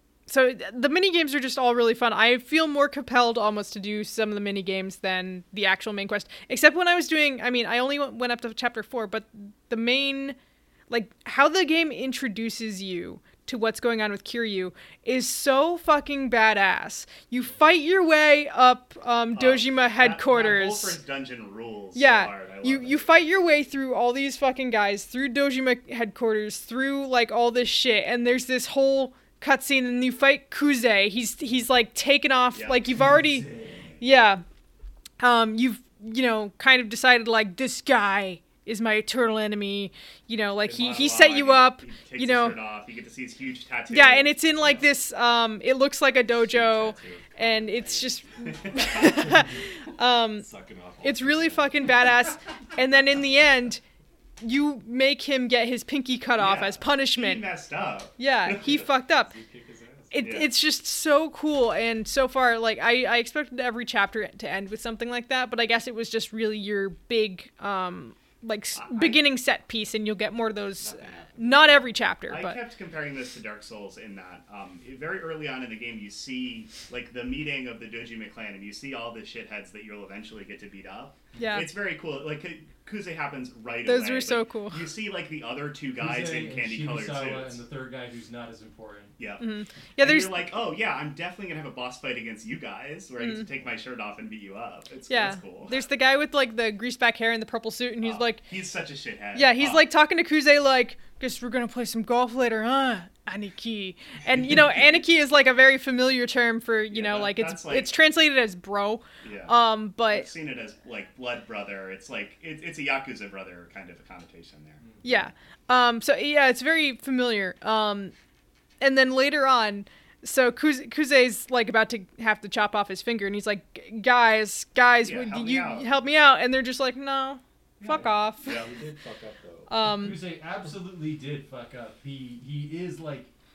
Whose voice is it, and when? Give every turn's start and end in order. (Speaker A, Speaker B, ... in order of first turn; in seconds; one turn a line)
Speaker A: 0.3-10.3
Speaker A: 10.9-21.0
Speaker B: 19.3-23.1
Speaker A: 21.9-33.5
Speaker B: 32.5-32.9
Speaker C: 32.9-34.0
Speaker A: 34.0-34.4
Speaker A: 35.2-42.6
Speaker B: 40.6-44.8
Speaker A: 43.9-50.5
Speaker D: 46.3-49.2
Speaker B: 48.7-49.2
Speaker D: 50.4-52.0
Speaker A: 51.0-53.8
Speaker A: 54.4-57.4
Speaker B: 56.4-58.9
Speaker A: 58.2-59.3
Speaker D: 58.5-60.4
Speaker A: 60.1-72.6
Speaker B: 60.2-60.5
Speaker B: 68.7-69.2
Speaker D: 70.8-72.1
Speaker B: 72.3-87.6
Speaker A: 81.4-81.7
Speaker A: 83.8-84.9
Speaker C: 86.0-89.1
Speaker B: 89.2-89.4
Speaker A: 89.4-90.5
Speaker B: 90.0-95.9
Speaker A: 93.2-93.5
Speaker A: 95.1-98.4
Speaker B: 98.0-99.9
Speaker A: 99.3-110.3
Speaker B: 106.9-107.9
Speaker B: 109.2-114.8
Speaker C: 114.8-115.2
Speaker A: 115.0-118.1
Speaker A: 118.8-128.6
Speaker B: 125.0-125.9
Speaker B: 127.8-128.7
Speaker D: 127.9-129.7
Speaker A: 129.7-130.3
Speaker C: 129.8-133.3